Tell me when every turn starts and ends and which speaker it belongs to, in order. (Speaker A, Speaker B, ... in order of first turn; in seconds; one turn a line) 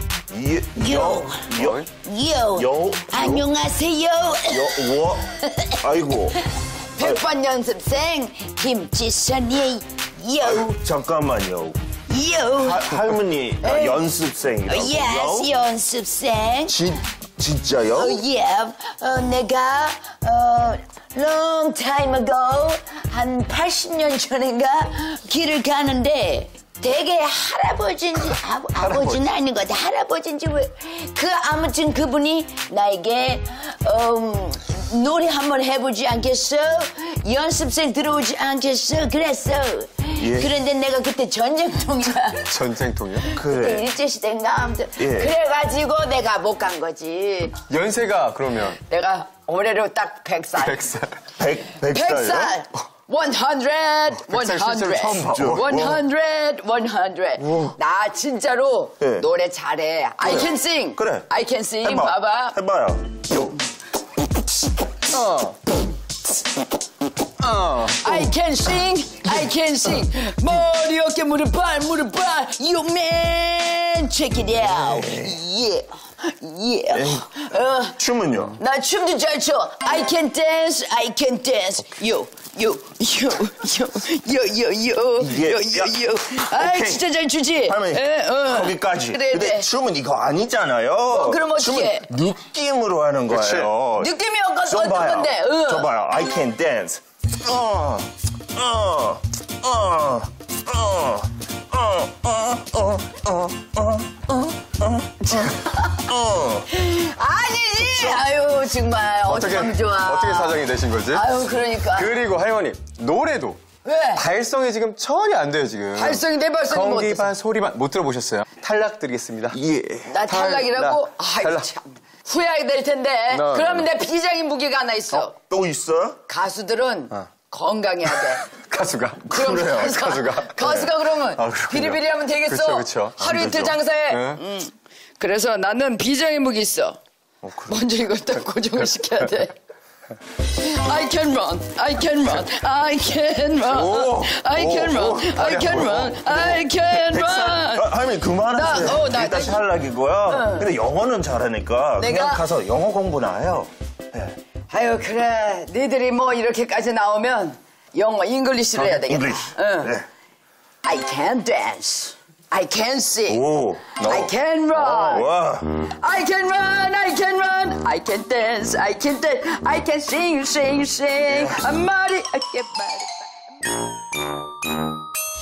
Speaker A: 0.3-1.9
Speaker B: 0.8-1.5
Speaker C: 1.5-1.9
Speaker B: 2.0-4.7
Speaker A: 2.5-3.5
Speaker A: 4.5-5.3
Speaker A: 5.8-6.4
Speaker B: 7.0-10.7
Speaker A: 10.4-11.8
Speaker B: 12.1-13.0
Speaker A: 12.6-15.5
Speaker B: 13.6-14.0
Speaker B: 14.7-16.8
Speaker A: 16.7-18.2
Speaker B: 17.9-42.4
Speaker A: 28.9-29.2
Speaker A: 40.2-40.5
Speaker C: 42.5-43.3
Speaker A: 43.3-43.9
Speaker B: 43.5-47.5
Speaker A: 45.0-45.3
Speaker C: 47.7-48.8
Speaker B: 48.9-50.9
Speaker C: 50.6-51.2
Speaker A: 51.4-52.6
Speaker B: 51.9-62.6
Speaker C: 54.3-55.8
Speaker A: 55.2-56.0
Speaker A: 60.2-61.3
Speaker A: 61.8-63.6
Speaker C: 65.1-65.6
Speaker C: 67.4-68.0
Speaker B: 68.0-75.9
Speaker A: 74.7-75.4
Speaker B: 76.4-77.9
Speaker A: 76.9-78.6
Speaker B: 78.6-89.7
Speaker A: 85.2-87.1
Speaker A: 87.6-94.1
Speaker B: 91.1-92.1
Speaker C: 93.3-93.7
Speaker B: 94.0-95.9
Speaker A: 94.6-105.5
Speaker A: 106.1-106.6
Speaker B: 106.7-112.2
Speaker A: 107.8-108.2
Speaker C: 109.3-111.3
Speaker C: 111.9-113.6
Speaker B: 113.8-114.2
Speaker C: 114.1-119.6
Speaker B: 116.0-117.3
Speaker A: 119.5-120.1
Speaker B: 120.1-125.3
Speaker C: 120.3-121.7
Speaker C: 123.3-123.9
Speaker A: 125.1-126.2
Speaker B: 126.3-128.5
Speaker C: 128.5-134.4
Speaker B: 129.3-137.0
Speaker A: 129.4-129.7
Speaker A: 137.4-137.7
Speaker B: 137.7-139.6
Speaker B: 140.6-147.9
Speaker A: 143.9-145.6
Speaker C: 145.3-146.2
Speaker A: 146.3-154.3
Speaker B: 148.5-149.6
Speaker B: 150.3-150.7
Speaker B: 152.0-152.4
Speaker B: 154.7-159.9
Speaker A: 158.7-160.1
Speaker B: 160.8-163.4
Speaker A: 163.3-165.7
Speaker B: 164.0-165.3
Speaker B: 165.8-173.3